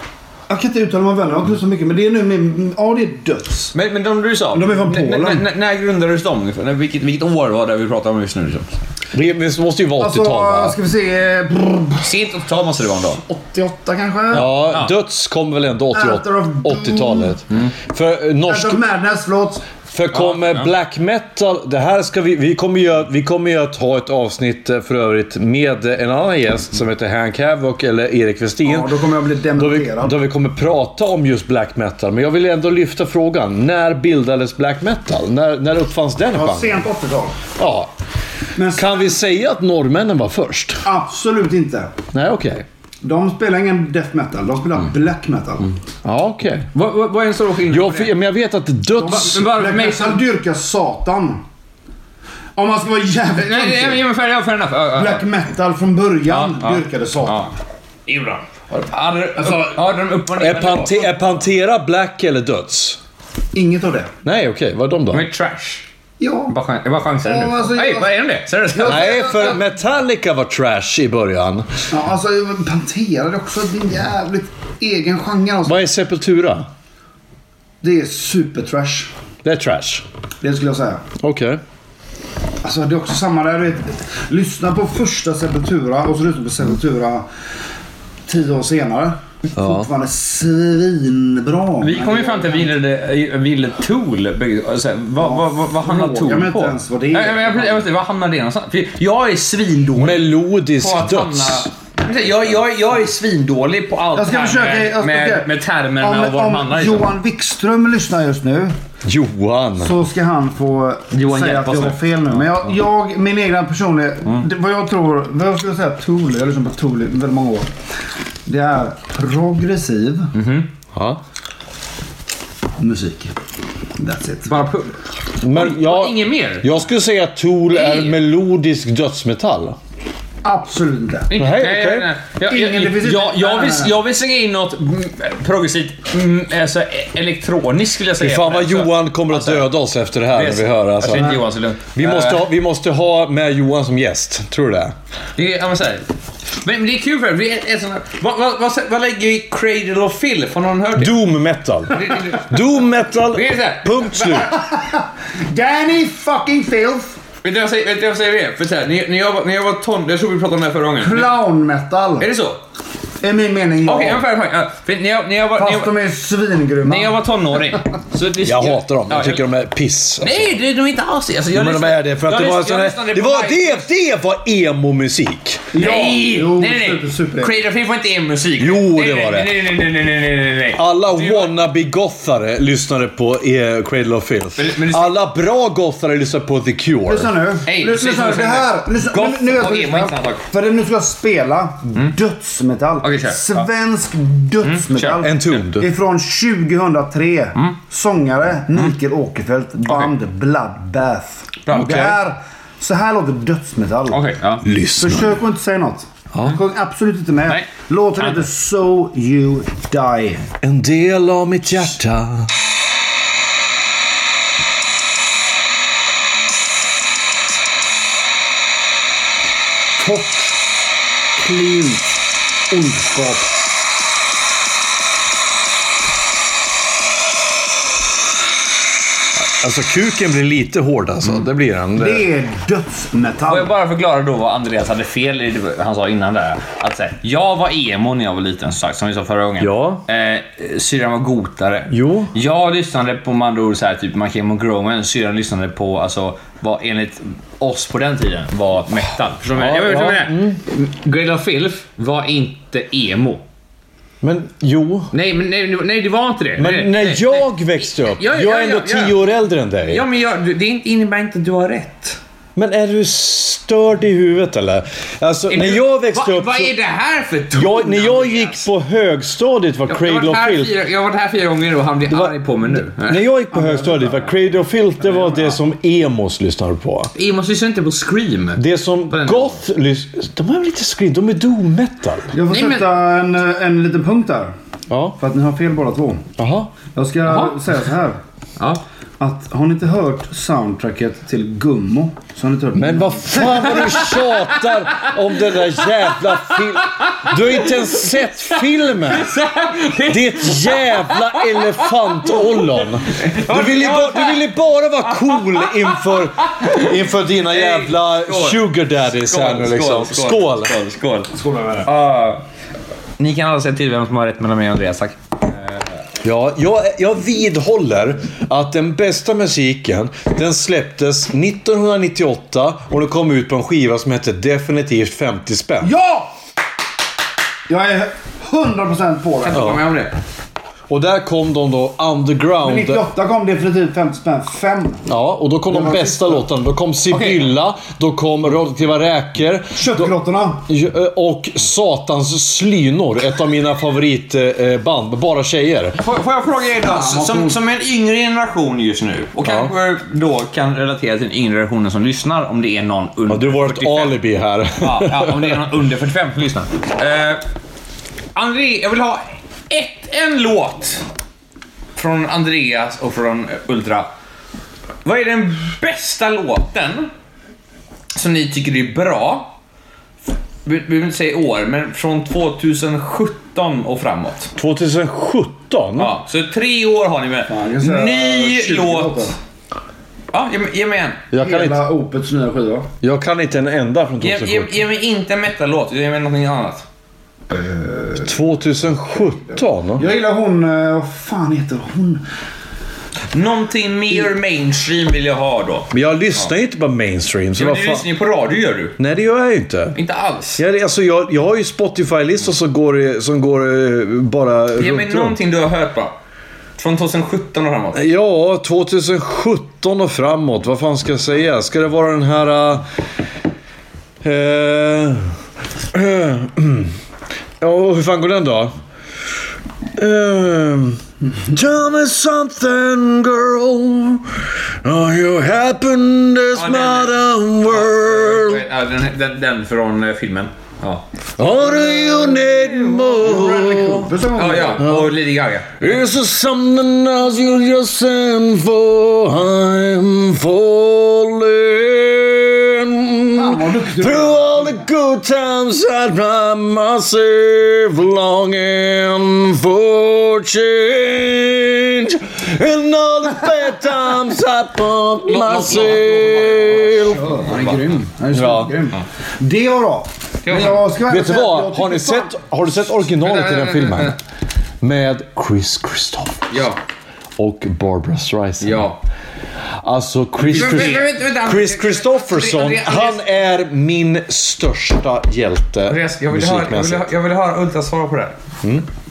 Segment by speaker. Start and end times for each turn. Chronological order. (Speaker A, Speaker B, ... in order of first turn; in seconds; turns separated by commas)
Speaker A: 0.5-3.7, Speaker B: 3.7-8.6, Speaker A: 4.5-5.4, Speaker C: 9.1-10.8, Speaker A: 10.0-12.1, Speaker B: 12.0-13.2, Speaker A: 13.2-14.5, Speaker B: 14.3-14.9, Speaker C: 14.3-18.8, Speaker A: 15.9-17.4, Speaker A: 18.4-19.6, Speaker C: 19.9-29.0, Speaker B: 20.1-20.7, Speaker A: 28.6-30.1, Speaker C: 29.6-36.9, Speaker A: 36.3-37.4, Speaker C: 37.5-37.9, Speaker A: 38.5-39.2, Speaker C: 38.7-40.9, Speaker A: 40.8-42.0, Speaker C: 42.1-42.6, Speaker A: 43.0-45.7, Speaker C: 46.0-46.7, Speaker B: 46.7-48.1, Speaker C: 47.7-49.4, Speaker A: 49.0-51.4, Speaker B: 49.0-50.2, Speaker A: 52.5-54.0, Speaker B: 53.4-55.2, Speaker A: 54.9-57.5, Speaker B: 56.3-57.5, Speaker B: 58.1-61.3, Speaker A: 59.4-59.7, Speaker C: 60.3-63.0, Speaker A: 63.5-64.1, Speaker C: 64.2-65.3, Speaker B: 65.1-65.9, Speaker A: 66.2-66.5, Speaker B: 66.5-69.6, Speaker A: 67.2-69.6, Speaker C: 68.8-71.7, Speaker A: 71.9-75.8, Speaker C: 75.6-76.7, Speaker A: 77.8-79.1, Speaker C: 79.4-80.0, Speaker A: 80.4-81.0, Speaker C: 81.2-81.6, Speaker A: 82.6-87.3, Speaker A: 88.3-92.7, Speaker C: 89.5-89.9, Speaker B: 91.8-107.1, Speaker A: 95.2-97.9, Speaker C: 100.0-101.7, Speaker A: 104.1-108.7, Speaker C: 109.0-110.0, Speaker A: 109.8-117.7, Speaker B: 111.1-112.7, Speaker A: 118.5-120.3, Speaker B: 120.3-120.7, Speaker C: 120.9-121.2, Speaker A: 122.8-123.3, Speaker A: 124.0-124.5, Speaker B: 124.5-124.9, Speaker C: 125.4-129.8, Speaker B: 125.5-126.7, Speaker B: 127.7-128.1, Speaker A: 130.4-131.3, Speaker B: 131.3-139.7, Speaker C: 131.4-132.1, Speaker A: 132.5-133.9, Speaker C: 138.2-141.4, Speaker B: 140.3-142.4, Speaker A: 141.1-141.4, Speaker C: 141.9-144.9, Speaker B: 145.4-146.1, Speaker B: 146.6-151.1, Speaker C: 150.9-154.5, Speaker B: 151.9-152.6, Speaker B: 153.3-154.5, Speaker A: 154.4-157.2, Speaker B: 157.4-161.4, Speaker A: 161.0-162.3, Speaker B: 162.2-162.6, Speaker A: 163.2-164.2, Speaker B: 163.8-166.0, Speaker A: 165.6-167.2, Speaker B: 166.8-169.4, Speaker C: 168.4-170.5, Speaker B: 170.2-173.9, Speaker C: 171.5-175.7, Speaker A: 175.7-177.6, Speaker B: 175.7-181.5, Speaker C: 178.6-179.5, Speaker C: 180.8-187.3, Speaker B: 184.6-185.2, Speaker A: 187.1-204.2, Speaker B: 187.7-190.4, Speaker B: 193.0-193.7, Speaker B: 194.6-195.6, Speaker C: 195.2-195.9, Speaker B: 199.8-200.1, Speaker B: 201.7-202.2, Speaker C: 201.7-202.1, Speaker B: 204.1-204.6, Speaker C: 204.6-205.4, Speaker A: 205.0-210.4, Speaker B: 208.2-208.5, Speaker C: 210.6-212.5, Speaker A: 219.9-220.6, Speaker A: 221.4-223.5, Speaker C: 229.4-232.3, Speaker A: 232.0-233.7, Speaker B: 233.5-253.4, Speaker C: 239.6-240.1, Speaker C: 241.9-242.3, Speaker C: 249.5-250.6, Speaker C: 254.2-255.1, Speaker B: 255.1-259.2, Speaker C: 256.6-260.1, Speaker B: 259.9-262.2, Speaker C: 262.6-266.7, Speaker B: 265.5-268.6, Speaker C: 267.5-270.8, Speaker B: 269.9-273.3, Speaker C: 272.1-277.1, Speaker A: 273.5-274.3, Speaker A: 275.1-275.4, Speaker B: 277.1-279.6, Speaker C: 278.6-282.3, Speaker A: 282.3-284.5, Speaker B: 282.5-282.9, Speaker C: 284.9-285.2, Speaker A: 285.2-286.3, Speaker C: 286.4-286.7, Speaker A: 286.9-288.2, Speaker B: 287.3-287.6, Speaker A: 289.2-294.1, Speaker C: 292.7-299.3, Speaker B: 293.5-306.9, Speaker C: 300.1-310.8, Speaker B: 307.5-312.4, Speaker A: 311.3-311.9, Speaker B: 313.2-315.8, Speaker C: 316.2-325.9, Speaker A: 325.8-326.3, Speaker A: 327.7-329.8, Speaker B: 329.4-330.1, Speaker C: 329.5-329.8, Speaker C: 330.9-333.0, Speaker A: 332.6-335.1, Speaker C: 335.1-346.0, Speaker A: 335.7-336.4, Speaker B: 337.1-337.5, Speaker A: 339.7-340.6, Speaker B: 346.0-354.2, Speaker A: 346.8-347.6, Speaker C: 349.4-349.7, Speaker C: 353.3-355.6, Speaker B: 354.8-357.4, Speaker B: 358.3-361.1, Speaker B: 361.9-364.1, Speaker B: 365.0-367.1, Speaker B: 368.1-369.5, Speaker B: 370.6-374.5, Speaker C: 374.6-376.1, Speaker B: 376.0-379.3, Speaker A: 377.5-379.4, Speaker B: 380.3-381.2, Speaker C: 381.3-381.8, Speaker A: 381.4-382.9, Speaker C: 383.0-384.8, Speaker B: 384.2-386.9, Speaker A: 387.5-388.4, Speaker C: 388.2-390.1, Speaker A: 389.3-392.2, Speaker B: 393.3-396.5, Speaker C: 395.9-398.1, Speaker B: 397.6-399.0, Speaker C: 399.0-400.0, Speaker B: 399.9-400.6, Speaker C: 400.6-405.4, Speaker B: 404.8-406.1, Speaker B: 406.8-408.1, Speaker C: 407.9-412.9, Speaker C: 414.2-415.3, Speaker C: 415.9-416.9, Speaker C: 417.6-418.7, Speaker C: 420.0-428.6, Speaker B: 426.5-431.1, Speaker C: 431.4-434.1, Speaker B: 431.9-435.9, Speaker A: 433.2-434.9, Speaker C: 434.8-435.1, Speaker C: 435.8-457.3, Speaker A: 443.3-444.9, Speaker B: 455.3-458.0, Speaker A: 456.9-462.3, Speaker C: 458.3-458.8, Speaker B: 460.4-460.9, Speaker C: 461.1-464.2, Speaker B: 463.2-464.2, Speaker C: 464.8-466.6, Speaker B: 466.5-466.8, Speaker C: 467.4-468.9, Speaker B: 468.6-469.0, Speaker C: 469.8-477.1, Speaker B: 470.4-473.3, Speaker B: 475.9-478.4